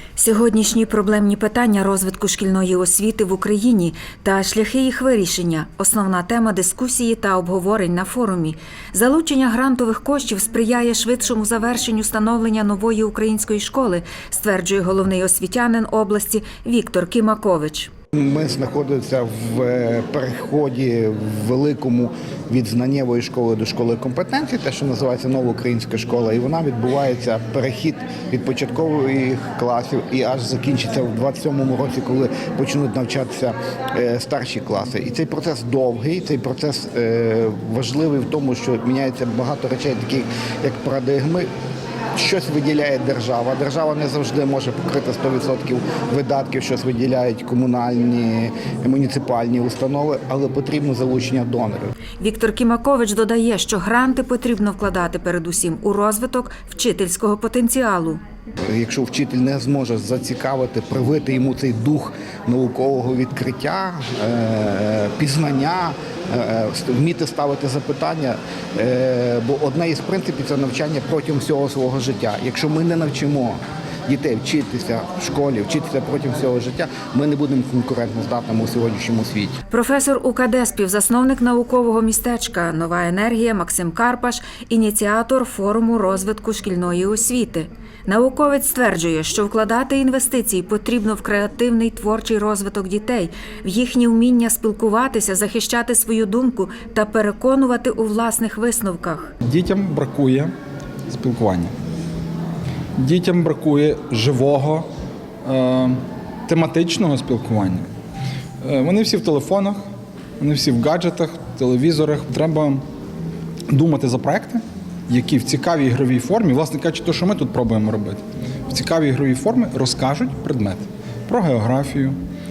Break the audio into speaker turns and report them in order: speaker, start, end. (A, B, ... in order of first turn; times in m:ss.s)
0:00.2-0:17.9 A
0:18.2-0:41.5 B
0:42.2-0:51.9 B
0:52.2-0:58.2 A
0:58.7-1:19.6 B
1:19.7-1:39.3 A
1:39.4-1:40.5 C
1:41.1-1:41.7 C
1:43.0-1:44.9 C
1:45.4-1:47.8 C
1:48.6-1:49.8 C
1:50.4-1:52.8 C
1:53.7-2:02.2 C